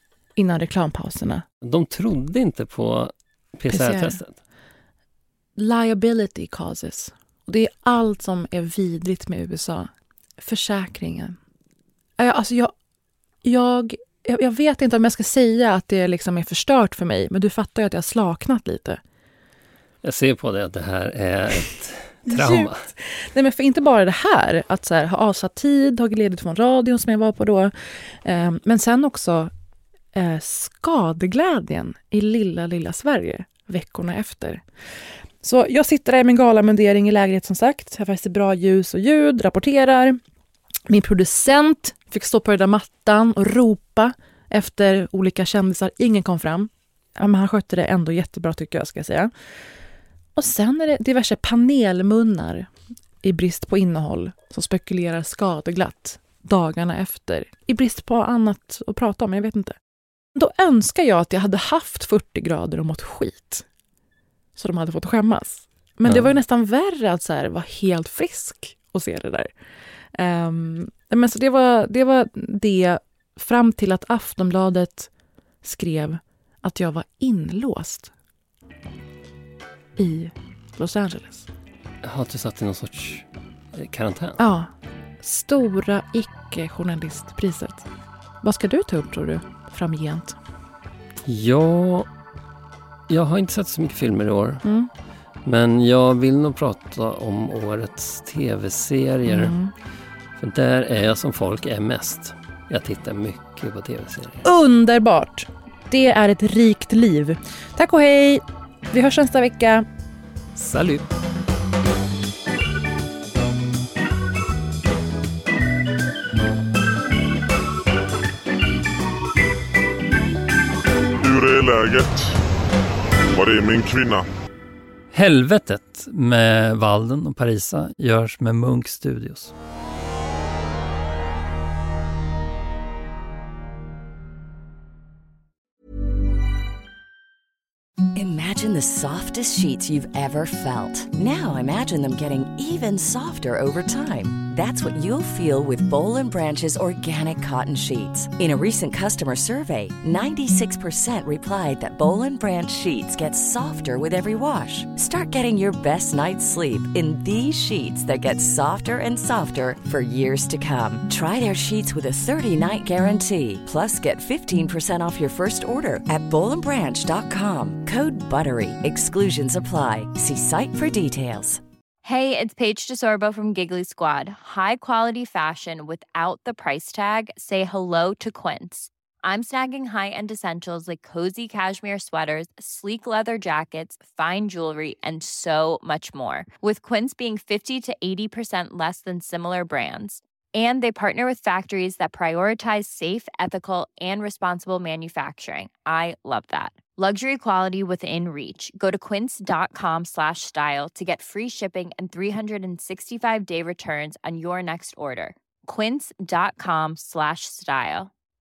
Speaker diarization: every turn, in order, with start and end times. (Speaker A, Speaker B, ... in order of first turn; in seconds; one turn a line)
Speaker A: 0.3-1.4
Speaker B: 1.6-4.3
Speaker A: 3.7-4.2
Speaker A: 5.5-11.3
Speaker A: 12.2-12.7
Speaker A: 13.4-19.0
Speaker B: 20.0-22.9
Speaker A: 22.3-27.7
Speaker A: 28.2-29.5
Speaker A: 30.1-34.6
Speaker A: 35.4-40.2
Speaker A: 40.9-49.3
Speaker A: 50.4-52.7
Speaker A: 53.2-59.8
Speaker A: 60.3-63.6
Speaker A: 64.6-69.5
Speaker A: 70.1-75.1
Speaker A: 75.6-78.1
Speaker A: 80.0-81.5
Speaker B: 82.0-84.4
Speaker A: 84.4-84.7
Speaker A: 85.2-87.8
Speaker A: 88.4-90.4
Speaker B: 91.2-92.1
Speaker B: 93.1-94.6
Speaker A: 94.6-94.9
Speaker B: 95.4-99.5
Speaker A: 99.2-99.7
Speaker B: 100.4-104.4
Speaker A: 104.4-109.8
Speaker B: 110.5-111.1
Speaker C: 121.2-122.3
Speaker C: 123.3-124.2
Speaker B: 125.1-129.5
Speaker D: 138.2-171.6
Speaker E: 172.0-208.1